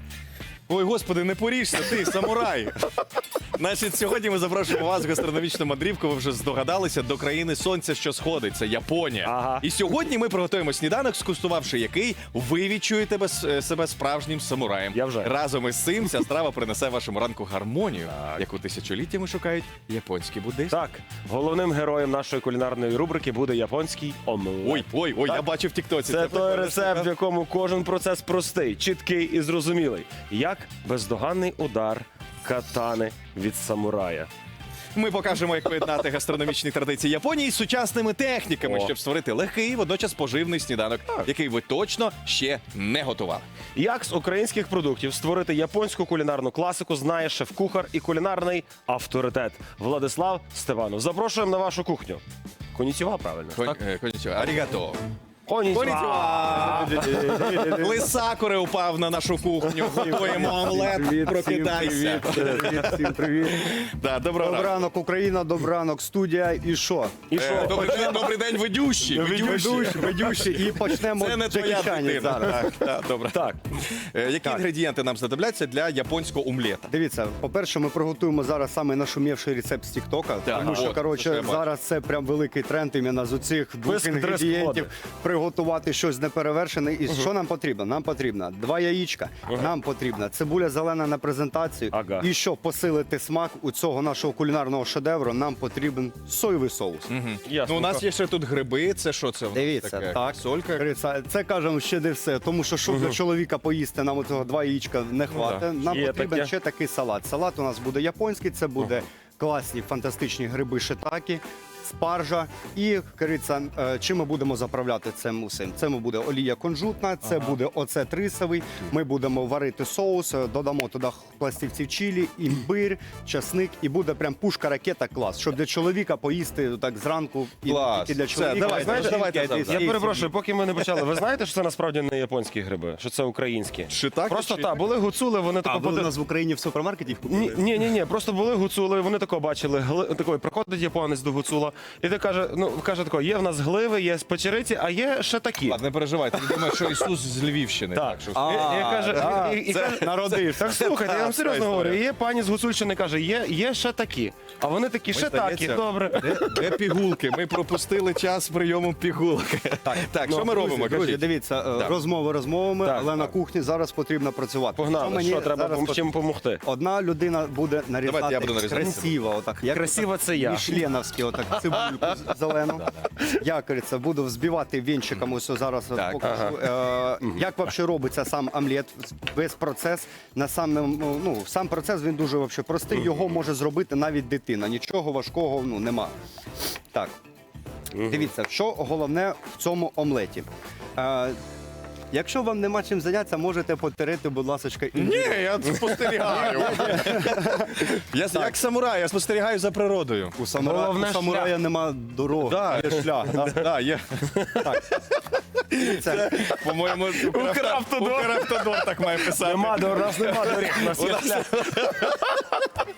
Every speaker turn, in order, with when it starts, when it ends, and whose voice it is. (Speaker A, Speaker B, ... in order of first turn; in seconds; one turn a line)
Speaker A: 0.7-2.9
Speaker A: 3.6-20.8
Speaker B: 9.2-9.7
Speaker B: 14.9-15.3
Speaker B: 20.7-25.5
Speaker A: 24.6-27.1
Speaker B: 26.1-34.3
Speaker A: 35.0-43.5
Speaker B: 38.6-38.9
Speaker B: 43.8-52.2
Speaker B: 52.7-53.8
Speaker A: 53.6-55.0
Speaker B: 55.5-58.0
Speaker A: 55.7-64.8
Speaker C: 56.5-58.0
Speaker B: 59.8-60.5
Speaker C: 60.0-63.9
Speaker C: 64.4-68.1
Speaker B: 67.3-68.3
Speaker A: 67.3-76.9
Speaker C: 69.1-72.8
Speaker B: 73.3-73.6
Speaker C: 76.9-97.1
Speaker A: 80.5-81.7
Speaker B: 83.8-84.9
Speaker B: 91.9-92.3
Speaker A: 97.1-100.9
Speaker B: 97.5-98.0
Speaker C: 99.5-130.3
Speaker A: 105.3-105.7
Speaker B: 105.9-106.5
Speaker A: 117.3-117.6
Speaker A: 127.7-129.9
Speaker B: 128.6-136.1
Speaker A: 133.9-134.8
Speaker C: 135.6-137.7
Speaker B: 137.3-145.8
Speaker A: 145.7-152.0
Speaker B: 147.9-156.9
Speaker C: 148.3-150.9
Speaker A: 155.1-162.0
Speaker C: 159.9-166.1
Speaker B: 160.2-161.2
Speaker B: 162.8-163.2
Speaker B: 164.8-166.6
Speaker C: 166.6-186.1
Speaker A: 168.0-169.2
Speaker B: 169.7-170.8
Speaker A: 172.8-173.1
Speaker A: 175.9-176.6
Speaker B: 176.2-176.5
Speaker B: 187.9-188.2
Speaker C: 188.0-191.4
Speaker C: 192.1-198.6
Speaker A: 194.9-200.4
Speaker C: 200.4-203.6
Speaker B: 200.6-201.6
Speaker A: 202.4-204.6
Speaker B: 204.3-204.9
Speaker C: 204.6-205.0
Speaker C: 205.7-206.4
Speaker A: 205.8-212.4
Speaker B: 206.1-211.6